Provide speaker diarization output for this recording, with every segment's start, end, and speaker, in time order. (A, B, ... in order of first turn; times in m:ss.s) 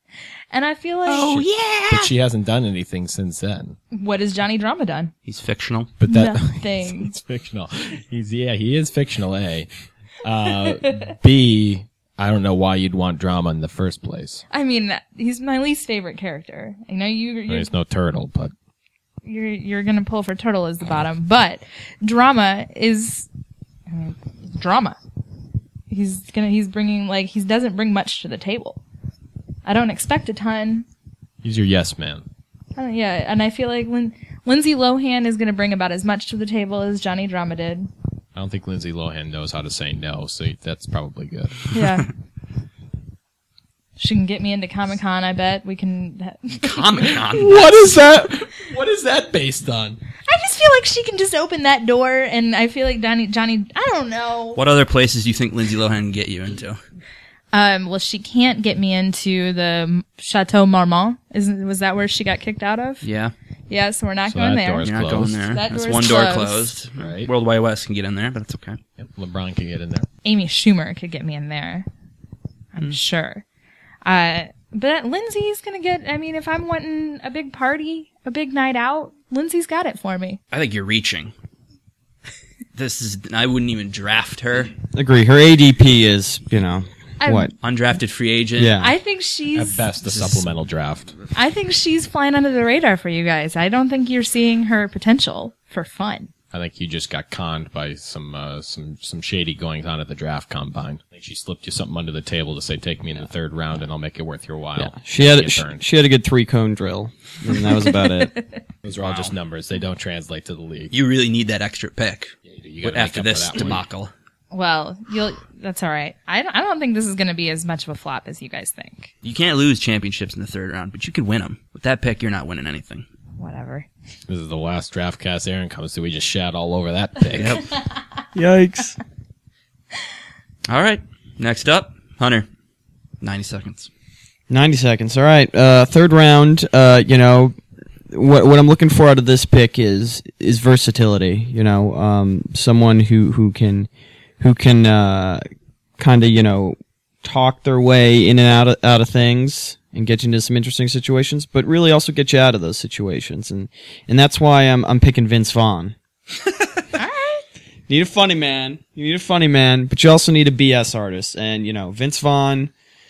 0:00.5-0:01.4 A
0:01.1-0:02.1 B
0:01.2-0:03.8 C
0:03.9-0:05.1 A
0:05.3-0:05.9 B
0:06.0-0:09.7 C
0:06.1-0:07.1 A
0:10.2-0:14.4 C
0:14.5-0:17.7 A
0:17.5-0:18.5 C
0:19.2-0:23.3 A
0:23.9-0:25.0 A
0:25.9-0:28.8 A
0:29.6-0:30.9 A
0:31.4-0:32.2 C
0:32.8-0:37.9 A
0:38.3-0:41.7 C
0:41.7-0:42.1 A
0:44.0-0:47.1 A
0:46.6-0:47.9 B
0:47.2-0:50.0 C
0:50.3-0:54.6 A
0:54.6-0:56.8 B
0:57.5-1:03.0 A
1:03.0-1:03.3 B
1:03.7-1:04.9 A
1:04.3-1:05.5 C
1:04.8-1:08.8 B
1:05.4-1:06.8 A
1:07.0-1:07.3 C
1:09.0-1:10.1 C
1:10.2-1:11.9 A
1:12.7-1:13.4 A
1:14.0-1:20.4 A
1:20.5-1:21.3 B
1:22.7-1:24.7 B
1:24.9-1:27.5 D
1:27.2-1:27.5 A
1:27.6-1:28.8 B
1:28.6-1:29.0 D
1:28.8-1:29.9 A
1:29.5-1:31.1 C
1:31.3-1:36.3 A
1:36.5-1:45.8 C
1:44.8-1:48.3 D
1:48.0-1:48.6 A
1:48.8-1:50.9 C
1:49.0-1:49.3 B
1:50.9-1:54.1 B
1:52.5-1:53.8 C
1:54.5-1:59.1 A
1:59.2-2:03.0 B
2:03.4-2:03.9 A
2:04.3-2:07.6 C
2:07.3-2:07.7 B
2:08.3-2:09.0 D
2:10.7-2:12.5 B
2:13.2-2:13.9 B
2:14.5-2:17.6 D
2:18.1-2:23.9 D
2:24.4-2:25.4 D
2:26.0-2:35.9 D
2:37.0-2:37.4 A
2:37.9-2:42.7 D